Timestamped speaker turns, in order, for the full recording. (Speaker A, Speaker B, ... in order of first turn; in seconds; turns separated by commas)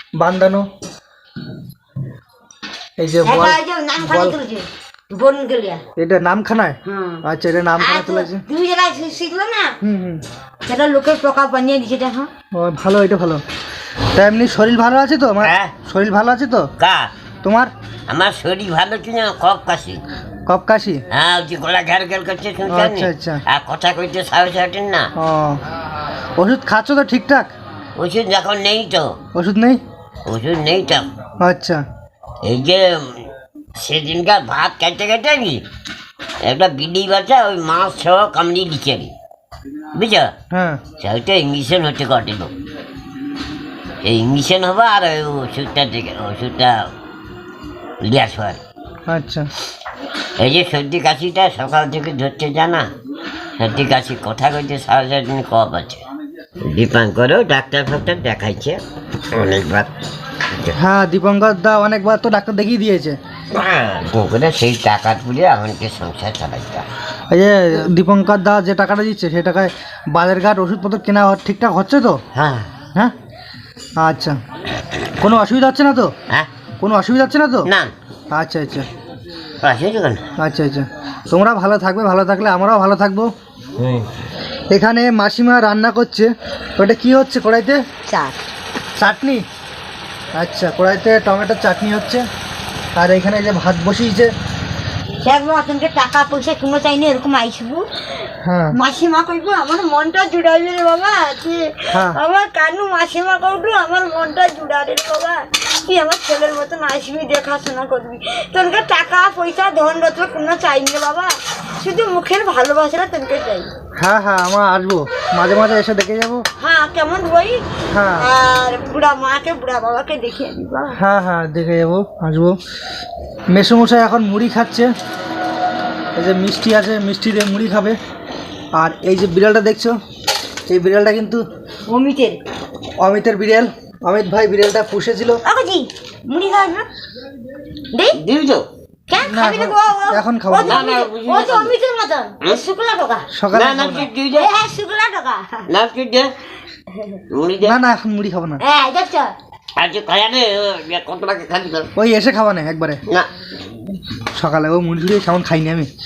Speaker A: 0.2-0.6, Speaker A: 3.0-4.4, Speaker B: 3.2-5.8, Speaker A: 6.0-8.4, Speaker B: 6.8-7.2, Speaker B: 7.8-9.7, Speaker A: 9.8-10.2, Speaker B: 10.7-12.3, Speaker A: 12.5-13.4, Speaker A: 14.1-16.7, Speaker C: 15.4-15.7, Speaker C: 16.8-17.1, Speaker A: 17.4-17.7, Speaker C: 18.1-20.0, Speaker A: 20.5-21.0, Speaker C: 21.1-25.1, Speaker A: 22.7-23.4, Speaker A: 25.1-25.6, Speaker A: 26.4-27.5, Speaker C: 27.9-29.1, Speaker A: 29.3-29.8, Speaker C: 30.2-31.1, Speaker A: 31.4-31.8, Speaker C: 32.4-35.6, Speaker C: 36.4-39.1, Speaker C: 39.9-40.3, Speaker A: 40.5-40.8, Speaker C: 41.0-42.5, Speaker C: 44.0-46.9, Speaker C: 48.0-48.6, Speaker A: 49.1-49.5, Speaker C: 50.4-52.9, Speaker C: 53.6-56.0, Speaker C: 56.6-58.8, Speaker C: 59.3-59.9, Speaker A: 60.7-63.2, Speaker C: 63.5-66.9, Speaker A: 67.3-72.2, Speaker C: 72.3-72.7, Speaker A: 74.0-74.4, Speaker A: 75.2-76.1, Speaker A: 76.8-77.7, Speaker C: 77.7-77.9, Speaker A: 78.3-78.9, Speaker C: 79.6-80.2, Speaker A: 80.4-83.3, Speaker C: 83.8-84.1, Speaker A: 84.7-87.8, Speaker B: 88.1-88.4, Speaker A: 89.0-89.4, Speaker A: 90.3-92.2, Speaker A: 93.0-94.3, Speaker B: 95.2-97.8, Speaker A: 98.4-98.8, Speaker B: 98.7-113.7, Speaker A: 101.9-102.2, Speaker A: 114.0-116.4, Speaker B: 116.6-117.6, Speaker A: 117.9-118.3, Speaker B: 118.2-121.0, Speaker A: 120.9-122.6, Speaker A: 123.5-124.9, Speaker A: 126.2-128.0, Speaker A: 128.7-129.9, Speaker A: 130.7-131.4, Speaker B: 131.9-132.4, Speaker A: 133.0-135.4, Speaker B: 135.4-136.8, Speaker C: 138.1-138.7, Speaker B: 139.1-143.3, Speaker A: 139.2-140.9, Speaker C: 140.6-141.7, Speaker A: 143.3-144.1, Speaker C: 143.5-144.5, Speaker B: 144.3-145.7, Speaker C: 145.7-146.3, Speaker C: 147.3-147.8, Speaker A: 147.6-148.6, Speaker B: 148.6-149.3, Speaker C: 149.8-151.9, Speaker A: 151.9-153.0, Speaker A: 154.3-155.9